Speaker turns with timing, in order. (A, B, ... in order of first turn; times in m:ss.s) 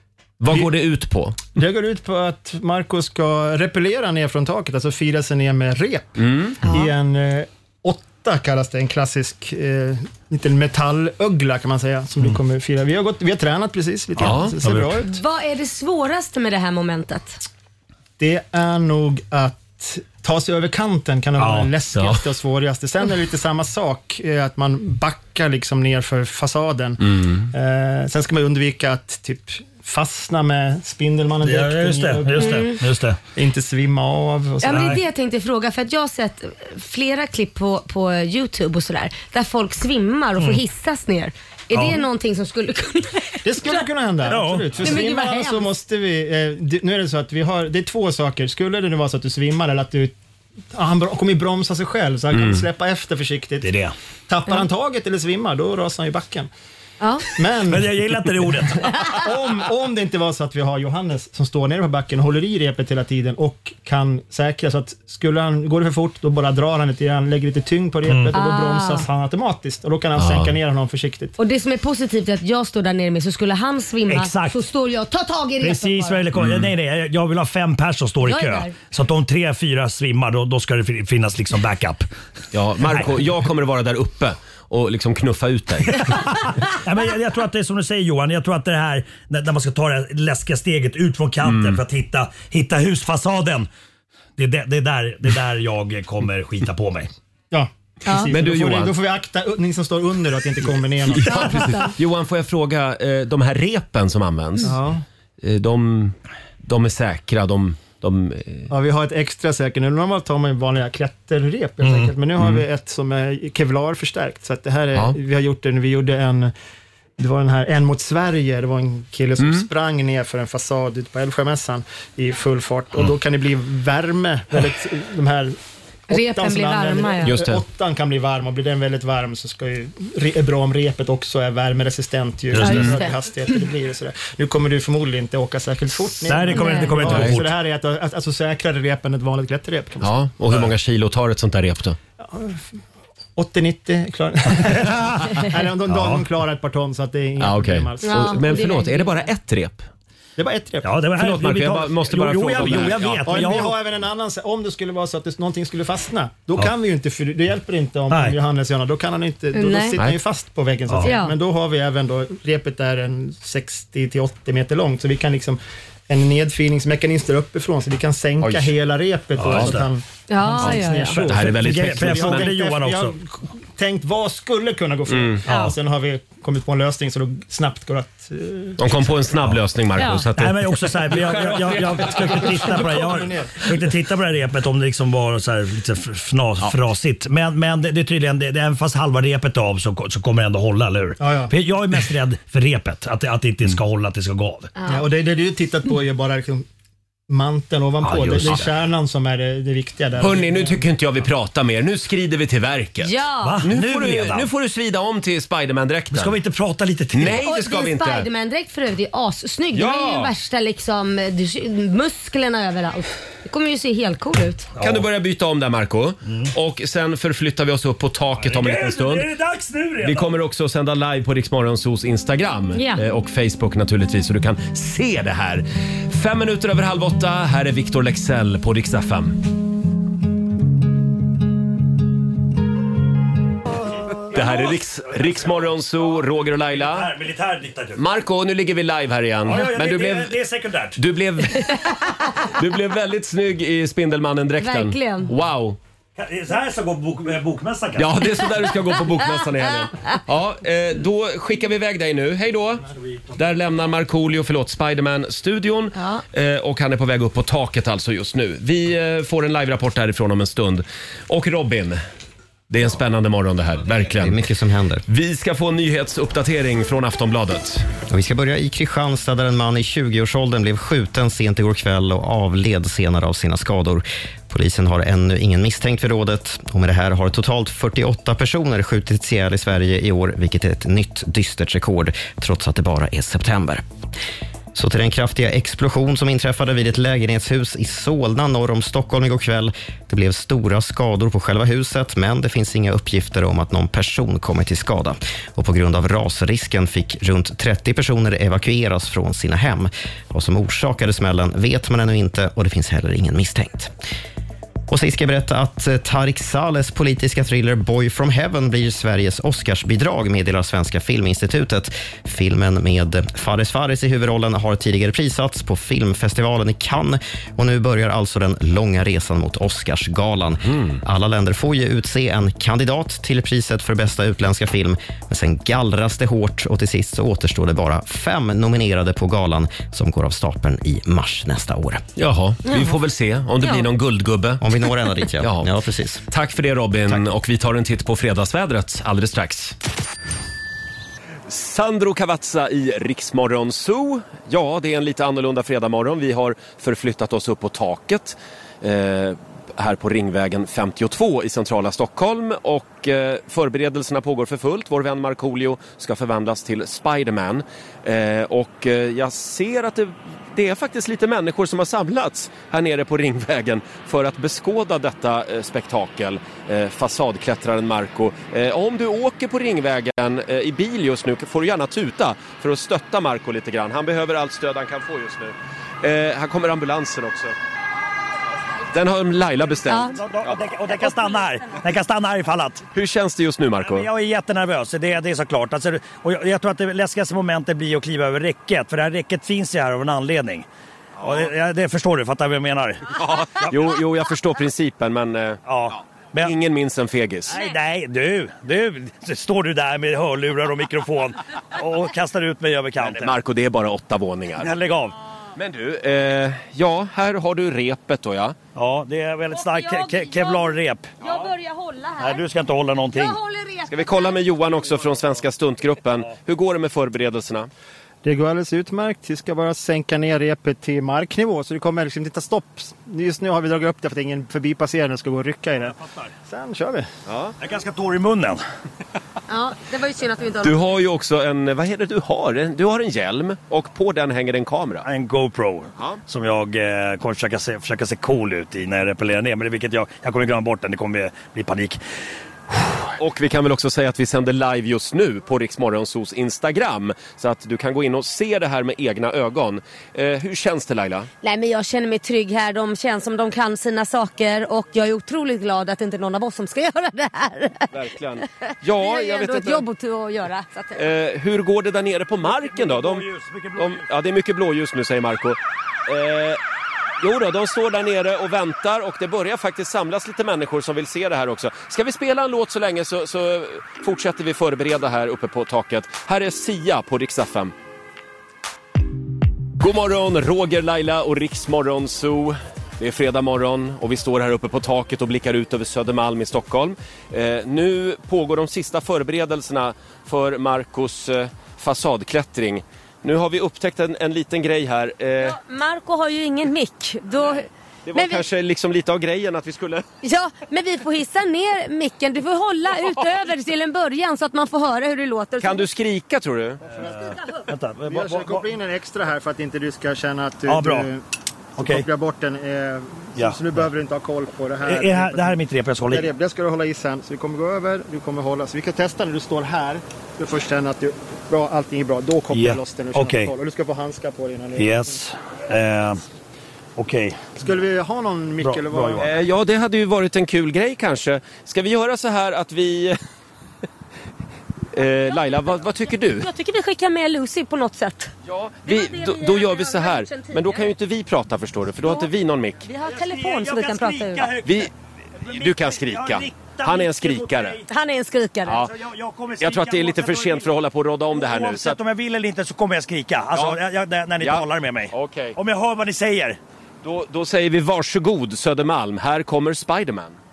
0:00.4-0:01.4 A
0:01.6-0:15.1 B
0:06.2-0:06.6 A
0:06.6-0:06.9 C
0:14.2-0:14.6 A
0:14.2-0:15.0 D
0:15.0-0:17.4 C
0:18.2-0:32.7 B
0:21.4-0:21.7 D
0:21.9-0:22.2 A
0:27.1-0:27.5 A
0:31.4-0:33.2 D
0:32.4-0:32.8 C
0:33.4-0:35.0 B
0:34.6-0:43.8 C
0:34.6-0:35.0 D
0:41.7-0:42.0 D
0:43.4-0:50.2 B
0:44.2-0:45.0 D
0:44.8-0:45.7 C
0:50.7-0:53.7 B
0:52.3-0:52.6 A
0:53.6-0:53.9 D
0:54.3-0:56.5 B
0:57.0-0:57.3 C
0:57.4-0:58.1 B
0:57.7-0:59.1 D
0:59.0-1:11.4 B
1:08.0-1:08.3 D
1:08.3-1:09.0 C
1:10.2-1:10.5 A
1:11.4-1:16.3 C
1:14.1-1:14.6 D
1:15.6-1:22.1 D
1:16.4-1:16.7 A
1:18.2-1:18.7 C
1:22.5-1:26.1 A
1:22.8-1:23.1 D
1:25.9-1:33.7 D
1:31.4-1:31.8 A
1:34.4-1:37.1 D
1:37.5-1:41.8 B
1:38.0-1:38.3 C
1:38.3-1:39.0 A
1:41.1-1:44.8 A
1:41.3-1:41.9 C
1:44.6-1:45.0 B
1:45.4-1:48.7 A
1:48.7-1:56.5 B
1:51.8-1:52.1 D
1:57.2-2:05.6 B
1:59.4-1:59.7 A
2:06.1-2:20.1 B
2:06.1-2:07.4 C
2:07.2-2:07.6 A
2:12.5-2:13.0 D
2:12.6-2:12.9 A
2:12.6-2:13.1 C
2:16.2-2:17.5 D
2:16.5-2:17.2 C
2:17.1-2:17.4 A
2:20.0-2:22.0 A
2:22.2-2:22.7 B
2:23.4-2:28.3 B
2:24.6-2:25.2 D
2:25.8-2:26.3 D
2:27.4-2:29.9 A
2:28.0-2:29.2 C
2:30.4-2:31.0 B
2:30.8-2:33.8 D
2:31.2-2:33.5 A
2:32.6-2:59.2 B
2:38.1-2:38.4 D
2:39.5-2:40.0 C
2:40.9-2:41.1 D
2:41.0-2:41.3 C
2:48.4-2:48.7 A
2:49.4-2:49.9 D
2:50.3-2:51.2 C
2:50.6-2:52.5 A
2:51.4-2:53.1 D
2:55.1-2:55.4 A
2:55.4-2:55.7 D
2:55.5-2:55.7 C
2:58.8-3:00.8 A
3:00.0-3:00.2 C
3:00.4-3:14.7 D
3:01.2-3:03.8 B
3:11.2-3:11.5 B
3:14.8-3:15.0 C
3:14.9-3:16.6 B
3:17.3-3:20.8 B
3:18.0-3:18.8 D
3:20.2-3:26.4 A
3:23.0-3:23.6 C
3:23.4-3:24.5 D
3:26.1-3:27.4 D
3:27.1-3:28.3 A
3:27.4-3:34.7 C
3:29.7-3:30.3 A
3:34.8-3:35.0 D
3:34.8-3:39.3 A
3:36.3-3:36.5 D
3:38.4-3:40.4 D
3:40.0-3:49.4 A
3:42.7-3:43.0 C
3:54.1-3:56.2 D
3:54.3-3:57.1 A
3:56.7-3:58.0 D
3:58.0-4:00.4 A
3:59.4-4:01.0 D
4:01.0-4:01.9 A
4:01.5-4:02.5 C
4:02.5-4:05.8 A
4:04.6-4:05.3 C
4:06.2-4:08.3 D
4:08.0-4:12.8 A
4:13.0-4:13.4 D
4:13.4-4:22.0 A
4:15.9-4:16.2 C
4:22.7-4:24.4 A
4:24.2-4:25.0 E
4:25.1-4:27.8 A
4:28.1-4:43.8 E
4:44.7-5:03.9 E
5:04.9-5:32.0 E
5:32.2-5:34.6 A
5:32.7-5:32.9 C
5:33.6-5:33.9 C
5:34.6-5:36.2 E
5:35.4-5:35.7 A
5:36.3-5:39.7 A
5:41.5-6:17.5 A
6:18.9-6:20.6 A
6:19.9-6:20.2 C
6:20.2-6:22.8 D
6:22.9-6:24.1 A
6:23.8-6:30.7 D
6:31.2-6:31.5 A
6:31.2-6:33.7 D
6:33.2-6:35.6 A
6:35.7-6:36.5 D
6:36.4-6:37.6 A
6:37.5-6:43.3 D
6:43.0-6:44.7 A
6:44.6-6:45.2 D
6:45.6-6:48.6 A
6:48.7-6:51.1 D
6:49.5-6:52.4 C
6:52.2-6:53.4 D
6:53.1-6:54.4 C
6:53.9-6:57.7 A
6:58.2-7:07.1 B
7:05.8-7:06.3 D
7:07.3-7:07.6 A
7:07.6-7:08.6 D
7:09.5-7:11.0 C
7:10.6-7:15.0 A
7:15.0-7:22.0 D
7:22.7-7:23.0 D
7:23.2-7:31.3 A
7:31.4-7:37.9 C
7:37.9-7:39.8 A
7:38.6-7:41.1 C
7:41.0-7:46.6 A
7:42.4-7:44.0 D
7:47.2-7:57.7 A
7:59.8-8:15.6 A
8:15.4-8:18.4 C
8:18.0-8:20.0 A
8:20.2-8:25.9 C
8:25.6-8:26.8 A
8:26.9-8:28.6 D
8:28.0-8:31.2 B
8:30.7-8:31.1 D
8:31.8-8:32.0 D
8:31.8-8:45.2 B
8:33.4-8:33.8 D
8:34.8-8:36.3 D
8:42.5-8:43.5 D
8:44.8-8:46.2 D
8:47.0-8:47.6 D
8:47.6-8:49.3 B
8:48.6-8:49.2 D
8:49.2-8:53.2 A
8:54.9-8:56.4 A
8:56.3-8:58.3 C
8:58.4-9:02.9 A
8:58.8-9:00.9 C
9:02.8-9:04.5 C
9:03.0-9:07.9 D
9:04.6-9:04.9 A
9:05.5-9:07.8 A
9:07.9-9:08.8 C
9:08.7-9:10.7 D
9:09.6-9:12.0 A
9:11.3-9:16.6 D
9:13.5-9:13.8 A
9:14.4-9:15.6 A
9:17.0-9:20.4 A